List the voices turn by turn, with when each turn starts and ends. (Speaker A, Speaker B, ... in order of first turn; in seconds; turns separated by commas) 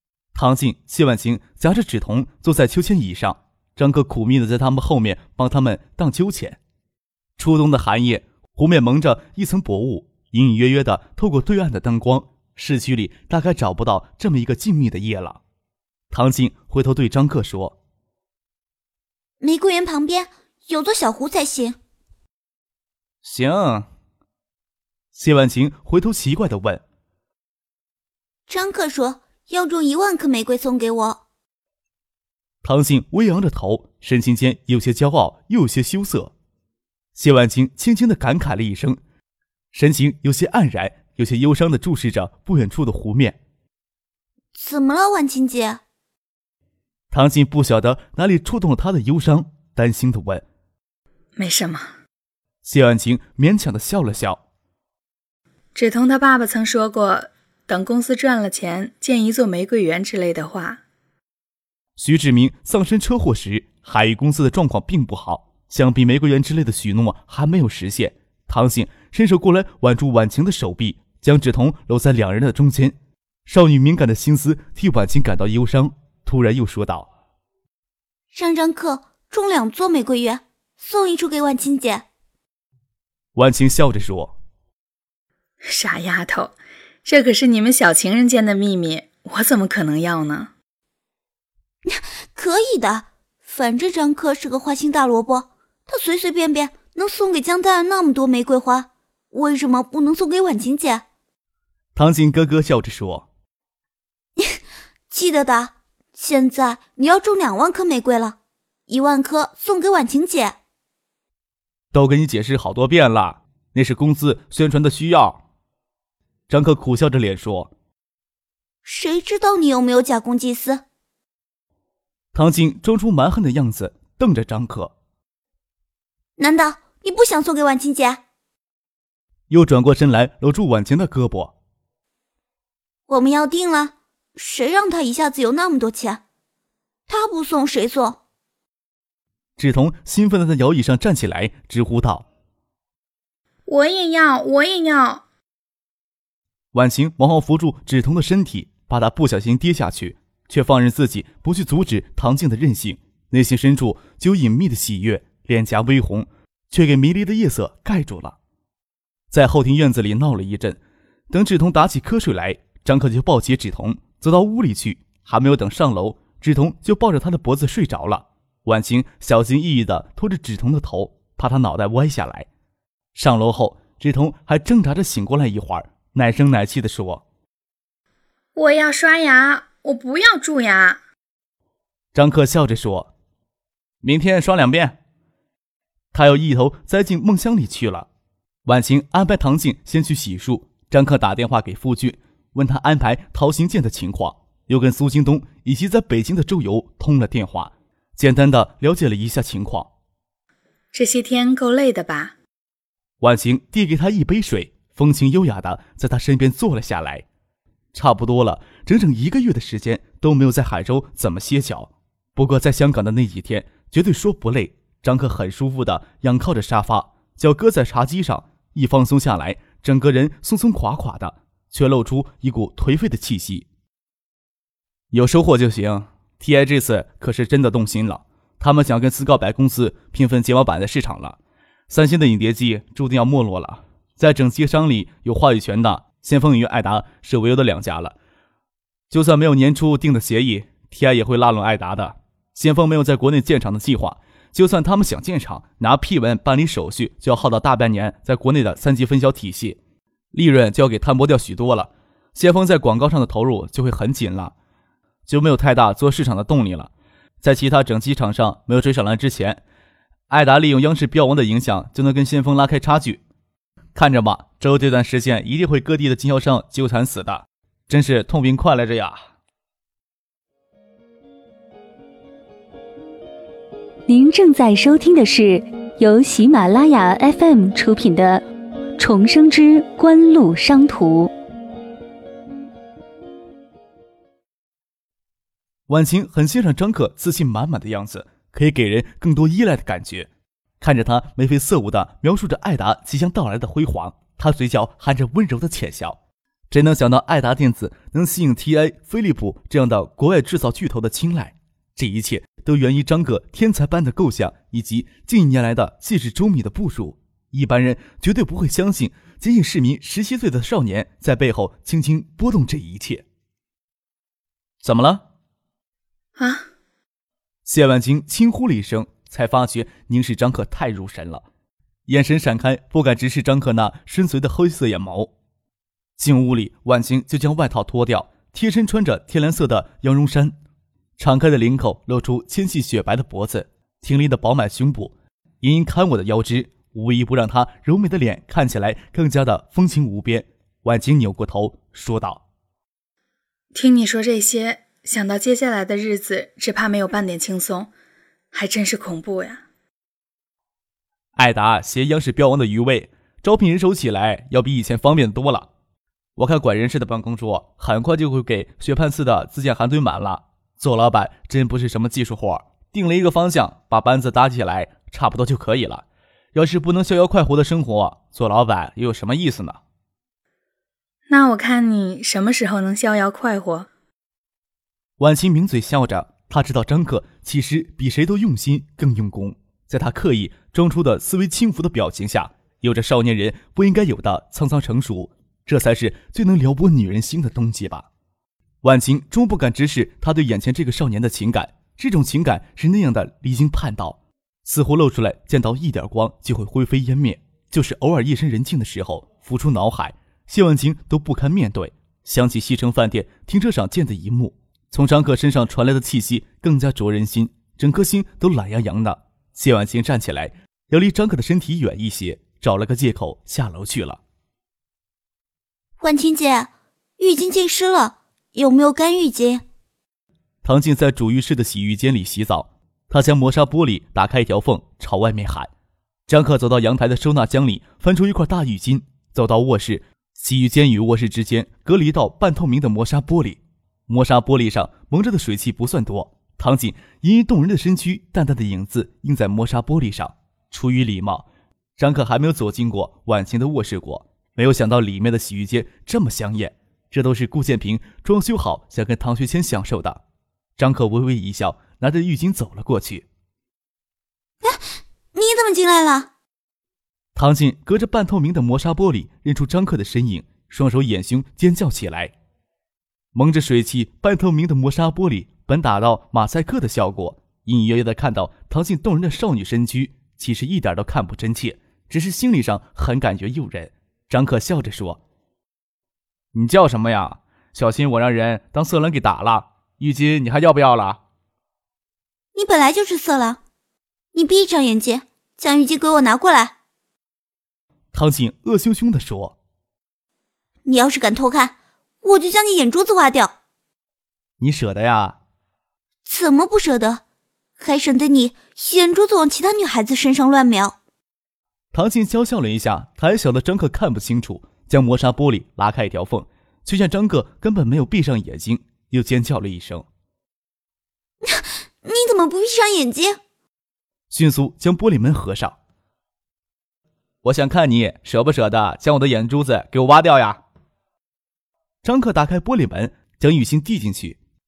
Speaker A: 0.3-6.6, Speaker A: 7.4-15.4, Speaker A: 16.1-17.8, Speaker B: 19.4-21.8, Speaker A: 23.2-23.9, Speaker A: 25.1-26.8, Speaker B: 28.5-31.2, Speaker A: 32.6-36.3, Speaker A: 37.1-39.0, Speaker A: 39.7-43.4, Speaker B: 44.5-45.8, Speaker A: 47.1-50.4, Speaker C: 51.4-51.9, Speaker A: 52.6-54.4, Speaker C: 55.8-60.8, Speaker A: 62.0-73.0, Speaker A: 73.5-77.1, Speaker B: 78.3-82.1, Speaker A: 83.4-84.4, Speaker C: 85.6-90.5, Speaker B: 91.9-101.0, Speaker A: 101.9-103.3, Speaker B: 105.1-108.4, Speaker B: 108.9-110.6, Speaker A: 111.9-115.4, Speaker A: 116.5-117.7, Speaker B: 118.8-120.8, Speaker A: 122.3-124.9, Speaker B: 126.4-128.2, Speaker A: 129.5-131.6, Speaker B: 133.1-136.2, Speaker B: 137.1-138.2, Speaker A: 139.6-142.2, Speaker C: 143.7-145.2, Speaker A: 146.7-158.4, Speaker A: 159.3-160.8, Speaker A: 161.3-172.5, Speaker A: 173.2-177.2, Speaker C: 178.6-181.0, Speaker A: 182.2-183.1, Speaker A: 184.0-185.0, Speaker A: 186.1-188.1, Speaker A: 188.7-199.9, Speaker C: 200.9-202.3, Speaker A: 203.2-207.3, Speaker A: 207.9-223.7, Speaker A: 225.1-231.4, Speaker A: 231.9-238.2, Speaker A: 239.1-249.8, Speaker A: 250.3-254.5, Speaker A: 255.3-256.9, Speaker A: 257.4-259.6, Speaker A: 260.3-263.2, Speaker A: 263.9-269.3, Speaker D: 274.1-278.4, Speaker D: 279.0-281.3, Speaker A: 285.9-290.3, Speaker A: 290.8-296.2, Speaker A: 296.7-313.2, Speaker A: 314.8-315.2, Speaker C: 316.4-316.6, Speaker A: 317.7-321.4, Speaker A: 322.1-325.3, Speaker A: 326.2-330.6, Speaker A: 331.2-342.4, Speaker C: 343.7-347.9, Speaker C: 348.5-349.6, Speaker A: 351.4-355.7, Speaker A: 356.4-369.8, Speaker C: 371.3-373.9, Speaker A: 375.2-388.1, Speaker A: 388.8-414.2, Speaker B: 416.0-419.6, Speaker A: 420.6-425.7, Speaker A: 426.3-441.4, Speaker A: 442.0-450.2, Speaker A: 450.8-453.3, Speaker B: 455.3-456.3, Speaker A: 457.3-462.3, Speaker A: 463.3-475.2, Speaker A: 476.5-481.2, Speaker B: 482.6-483.6, Speaker B: 484.3-486.8, Speaker A: 488.1-489.6, Speaker B: 490.8-493.5, Speaker A: 494.6-495.4, Speaker B: 496.3-497.2, Speaker B: 497.8-500.9, Speaker A: 501.9-510.1, Speaker B: 511.4-513.4, Speaker A: 514.3-515.8, Speaker A: 517.4-520.6, Speaker A: 522.0-524.4